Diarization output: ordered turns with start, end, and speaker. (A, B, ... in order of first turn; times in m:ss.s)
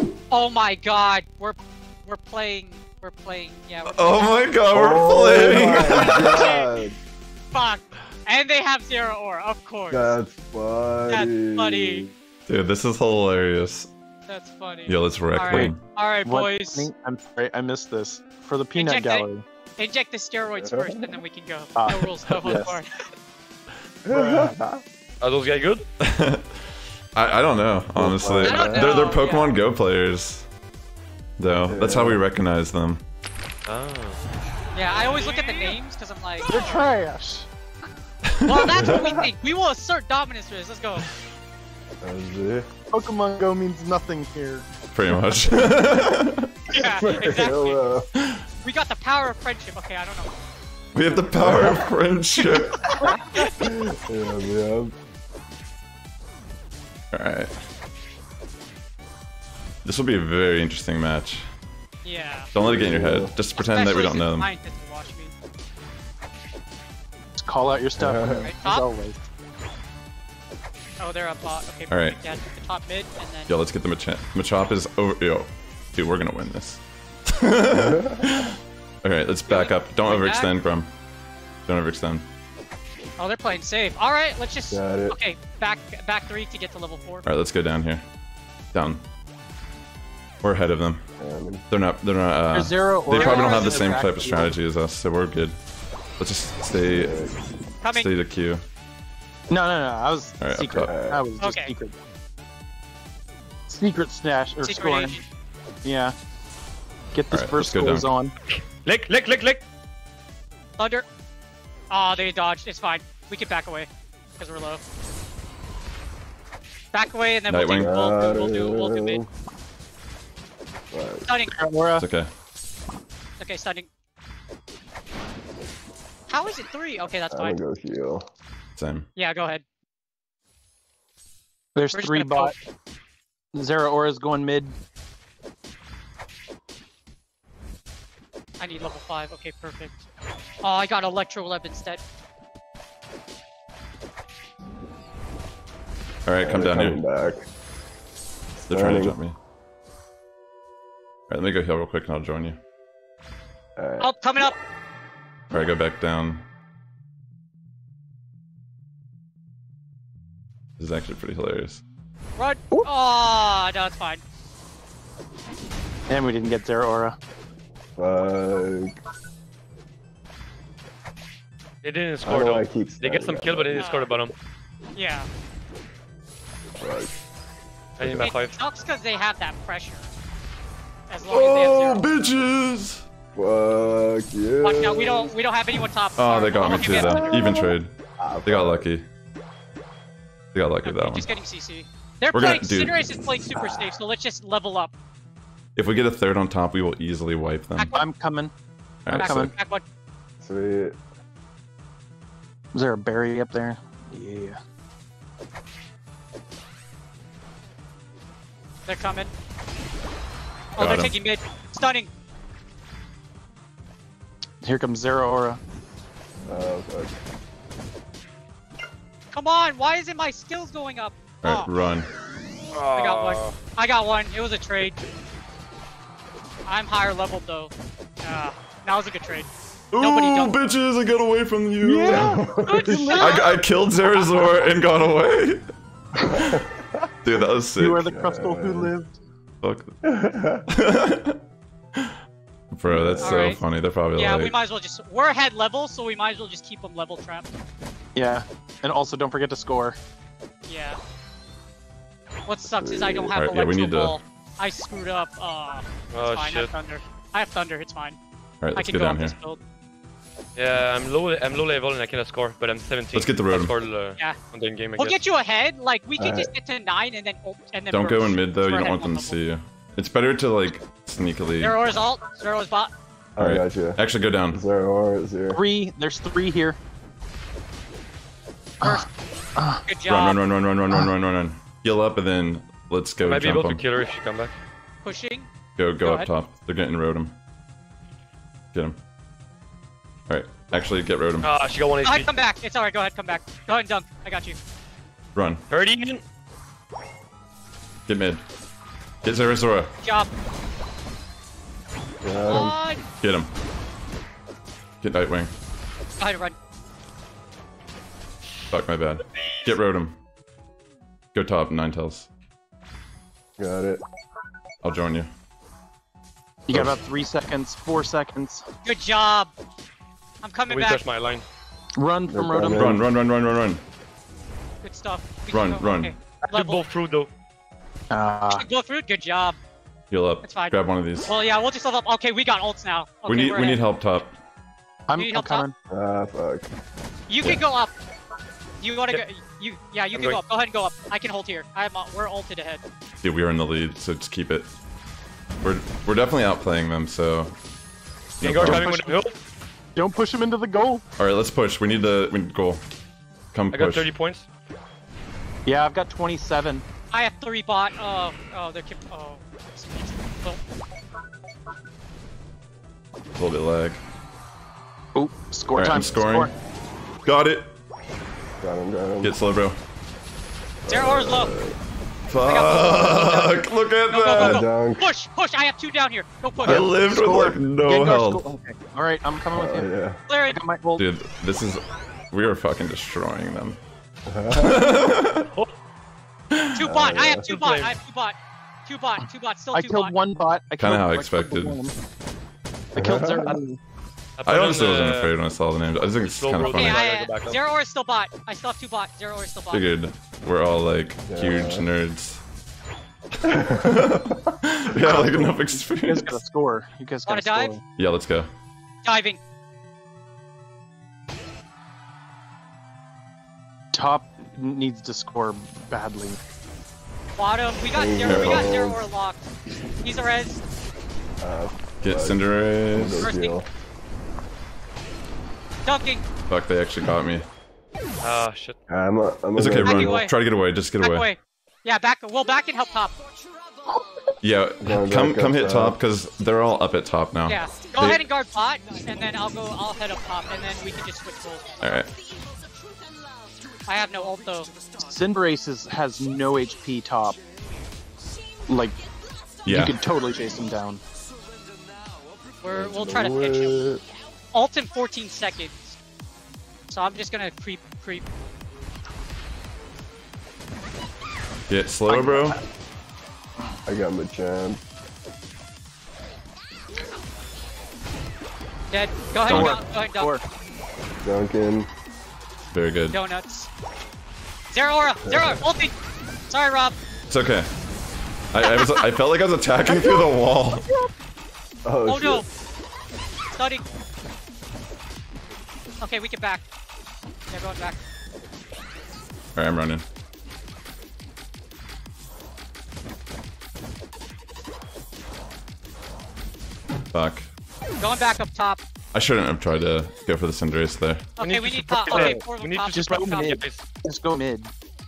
0:00.3-0:04.4 A
0:03.9-0:06.4 B
0:04.7-0:07.0 C
0:05.9-0:06.6 A
0:07.5-0:10.2 A
0:09.9-0:12.1 C
0:11.1-0:12.1 A
0:12.5-0:13.9 B
0:14.3-0:16.9 A
0:14.9-0:15.8 B
0:15.5-0:19.4 D
0:18.7-0:19.2 A
0:19.8-0:22.9 A
0:20.6-0:21.2 C
0:21.7-0:22.8 D
0:24.0-0:24.8 C
0:24.1-0:24.5 D
0:25.2-0:25.8 E
0:26.0-0:26.6 B
0:27.1-0:30.5 B
0:28.0-0:29.0 C
0:28.4-0:29.5 A
0:31.4-0:33.0 B
0:31.7-0:32.2 C
0:33.7-0:34.2 E
0:34.7-0:36.6 A
0:35.2-0:35.7 E
0:36.4-0:37.5 D
0:38.3-0:38.8 B
0:38.4-0:41.1 A
0:38.8-0:39.3 C
0:42.0-0:42.7 C
0:42.9-0:44.7 D
0:44.9-0:46.5 B
0:46.7-0:47.8 A
0:46.8-0:48.1 C
0:48.6-0:50.3 A
0:50.9-0:52.8 B
0:51.4-0:51.8 C
0:53.0-0:53.7 A
0:53.6-0:54.9 C
0:57.1-0:57.5 B
0:59.8-1:01.4 B
1:02.0-1:02.5 A
1:02.5-1:04.5 B
1:02.6-1:03.3 C
1:03.5-1:05.3 A
1:07.4-1:09.2 D
1:08.0-1:08.5 C
1:08.4-1:08.9 A
1:11.0-1:13.5 A
1:11.9-1:12.2 B
1:13.5-1:20.9 B
1:17.7-1:18.4 C
1:19.5-1:20.5 A
1:21.6-1:22.3 B
1:23.2-1:27.2 A
1:24.7-1:25.2 C
1:27.2-1:28.0 B
1:28.7-1:29.0 B
1:30.4-1:31.0 B
1:31.2-1:31.6 C
1:31.7-1:35.6 B
1:32.5-1:34.5 D
1:33.2-1:34.0 A
1:36.2-1:37.2 B
1:36.7-1:37.4 C
1:37.8-1:38.1 A
1:37.9-1:38.6 B
1:39.5-1:41.9 D
1:40.4-1:40.9 B
1:40.9-1:41.2 C
1:41.4-1:41.7 A
1:43.7-1:45.2 D
1:44.6-1:45.2 A
1:45.8-1:46.1 D
1:47.1-1:48.3 D
1:47.3-1:48.1 B
1:48.8-1:49.6 E
1:50.8-1:51.0 A
1:51.9-1:54.8 A
1:56.9-1:59.2 A
1:57.5-1:57.9 B
1:57.7-1:59.2 C
2:00.9-2:01.2 C
2:01.2-2:01.6 A
2:01.5-2:02.0 D
2:02.0-2:02.3 B
2:03.4-2:03.9 A
2:06.3-2:07.6 A
2:07.3-2:08.2 C
2:08.8-2:09.1 B
2:09.2-2:09.6 A
2:11.7-2:12.5 D
2:11.9-2:12.5 A
2:13.5-2:14.8 D
2:18.6-2:20.0 A
2:20.6-2:22.0 A
2:26.2-2:27.0 B
2:26.4-2:27.4 C
2:28.6-2:29.4 B
2:28.7-2:29.2 C
2:31.3-2:32.6 B
2:33.8-2:34.1 C
2:34.0-2:34.6 A
2:35.5-2:36.4 B
2:40.8-2:41.8 B
2:42.4-2:44.2 A
2:46.1-2:47.2 D
2:48.0-2:49.0 C
2:51.8-2:54.3 E
2:52.2-2:53.8 C
2:53.8-2:54.1 A
2:55.0-2:55.3 A
2:56.8-2:57.1 C
2:58.0-2:58.6 E
2:58.0-2:58.3 C
2:58.2-3:00.0 A
3:01.1-3:02.1 A
3:01.2-3:03.0 B
3:03.3-3:05.3 C
3:04.6-3:07.6 A
3:06.2-3:09.1 B
3:06.9-3:07.6 C
3:08.2-3:08.8 C
3:10.5-3:11.3 B
3:10.8-3:14.9 A
3:12.3-3:13.1 B
3:13.6-3:13.9 C
3:15.8-3:17.9 B
3:17.8-3:18.1 A
3:17.9-3:18.5 D
3:19.0-3:19.5 B
3:19.1-3:19.5 D
3:19.2-3:19.8 A
3:20.4-3:21.0 C
3:22.7-3:24.6 D
3:28.9-3:29.3 A
3:30.8-3:32.1 A
3:30.8-3:31.1 B
3:34.6-3:35.6 D
3:36.5-3:37.1 C
3:39.3-3:41.7 A
3:41.4-3:42.1 B
3:42.7-3:43.6 E
3:42.9-3:45.0 A
3:46.7-3:47.7 A
3:48.2-3:50.7 A
3:49.9-3:52.3 B
3:51.8-3:53.3 D
3:52.0-3:53.1 C
3:52.6-3:53.6 A
3:53.1-3:55.6 B
3:56.4-3:57.0 C
3:57.2-3:58.1 B
3:57.8-3:59.2 D
3:58.0-3:58.9 C
3:59.6-3:59.9 B
4:00.0-4:00.6 C
4:00.7-4:01.4 B
4:02.7-4:04.5 B
4:02.9-4:03.6 C
4:03.2-4:03.6 A
4:04.1-4:07.5 A
4:08.1-4:10.0 D
4:10.7-4:11.0 A
4:12.4-4:18.2 A
4:12.7-4:13.3 C
4:13.3-4:14.2 B
4:16.1-4:16.7 E
4:18.6-4:19.4 B
4:18.7-4:19.6 A
4:20.6-4:25.2 E
4:23.1-4:23.8 B
4:25.0-4:29.4 A
4:26.2-4:26.5 C
4:27.9-4:31.8 B
4:31.6-4:32.9 A
4:33.4-4:35.6 C
4:33.4-4:34.6 B
4:35.5-4:36.8 D
4:38.8-4:39.8 D
4:39.9-4:40.4 A
4:40.1-4:43.9 B
4:43.2-4:44.6 E
4:45.0-4:45.5 A
4:45.8-4:47.4 B
4:46.0-4:46.3 A
4:50.3-4:51.5 B
4:51.4-4:52.3 E
4:52.0-4:54.6 A
4:55.3-4:55.6 B
4:55.7-4:56.2 E
4:58.1-4:58.4 B
4:59.2-4:59.9 B
5:00.0-5:00.3 A
5:02.2-5:02.8 C
5:02.4-5:03.0 A
5:03.2-5:03.5 B
5:05.0-5:05.5 B
5:06.2-5:06.5 A
5:08.7-5:10.2 B
5:11.3-5:12.3 B
5:13.6-5:14.0 C
5:14.8-5:15.3 B
5:16.7-5:18.6 D
5:16.7-5:17.0 B
5:18.8-5:19.5 A
5:20.4-5:21.0 A
5:20.7-5:21.4 E
5:21.9-5:23.0 D
5:22.3-5:23.0 C
5:22.7-5:23.8 B
5:24.8-5:26.8 A
5:25.5-5:26.1 B
5:26.4-5:27.3 E
5:28.1-5:28.7 D
5:28.5-5:29.6 A
5:30.1-5:31.3 B
5:30.4-5:33.8 A
5:33.2-5:34.4 B
5:35.1-5:35.7 D
5:35.1-5:35.6 A
5:35.9-5:36.7 C
5:37.3-5:37.9 A
5:38.8-5:42.8 A
5:40.1-5:40.4 E
5:43.2-5:44.7 B
5:45.6-5:47.6 B
5:48.4-5:48.9 B
5:48.4-5:49.3 E
5:48.6-5:49.1 D
5:50.0-5:51.0 D
5:51.2-5:52.8 B
5:53.5-5:54.1 B
5:53.7-5:54.5 E
5:55.6-5:56.8 D
5:57.1-6:00.6 A
6:03.4-6:04.0 B
6:05.1-6:06.5 D
6:05.7-6:06.5 B
6:07.2-6:07.7 B
6:08.6-6:09.3 C
6:09.2-6:09.8 B
6:10.8-6:11.8 C
6:10.9-6:11.5 A
6:12.3-6:14.6 B
6:12.4-6:16.8 A
6:14.4-6:15.1 C
6:16.6-6:21.0 D
6:16.6-6:18.4 B
6:19.5-6:20.2 C
6:20.3-6:20.6 A
6:21.0-6:23.8 B
6:24.3-6:24.8 C
6:24.5-6:25.5 B
6:26.7-6:30.1 A
6:26.9-6:27.5 C
6:27.5-6:27.9 E
6:29.7-6:31.9 D
6:30.8-6:31.8 B
6:32.9-6:33.8 D
6:33.0-6:33.6 C
6:34.4-6:35.3 E
6:34.4-6:37.0 B
6:36.3-6:37.6 E
6:36.6-6:39.9 A
6:39.7-6:42.4 B
6:41.3-6:41.8 C
6:43.4-6:46.4 B
6:43.5-6:44.4 C
6:45.0-6:47.8 D
6:47.2-6:47.7 A
6:48.0-6:48.5 B
6:49.0-6:49.4 A
6:53.9-6:56.4 D
6:57.4-6:59.5 A
6:57.9-6:59.0 C
6:58.2-6:58.7 B
7:00.0-7:00.6 A
7:01.4-7:02.4 C
7:02.0-7:03.3 B
7:02.9-7:03.7 C
7:03.2-7:03.6 A
7:05.8-7:06.2 A
7:06.5-7:07.5 B
7:08.2-7:08.8 E
7:08.9-7:10.2 C
7:09.6-7:11.3 B
7:09.8-7:10.3 A
7:11.0-7:13.1 A
7:14.4-7:18.2 B
7:14.8-7:16.0 C
7:17.5-7:21.8 A
7:21.8-7:22.1 B
7:23.9-7:24.8 A
7:25.0-7:27.4 D
7:28.7-7:29.0 D
7:29.6-7:30.0 B
7:29.7-7:31.0 D
7:32.6-7:33.8 A
7:32.7-7:34.0 C
7:34.5-7:36.0 A
7:36.9-7:38.2 A
7:41.7-7:42.6 B
7:42.1-7:42.6 D
7:43.8-7:44.8 C
7:48.9-7:50.3 A
7:49.4-7:50.4 D
7:49.5-7:49.8 B
7:51.2-7:51.9 C
7:52.7-7:53.2 B
7:53.1-7:53.7 A
7:54.7-7:55.9 A
7:55.2-7:55.6 C
7:56.5-7:57.0 A
7:57.3-7:57.7 B
7:58.5-8:00.8 B
7:58.6-7:59.1 A
7:59.9-8:00.2 A
8:01.8-8:02.4 C
8:02.0-8:02.4 A
8:03.5-8:03.9 A
8:06.0-8:06.6 A
8:07.5-8:08.0 A
8:09.5-8:10.0 B
8:17.1-8:17.5 B
8:18.0-8:18.8 A
8:19.1-8:21.3 B
8:21.4-8:23.6 A
8:21.4-8:23.8 E
8:22.0-8:24.7 D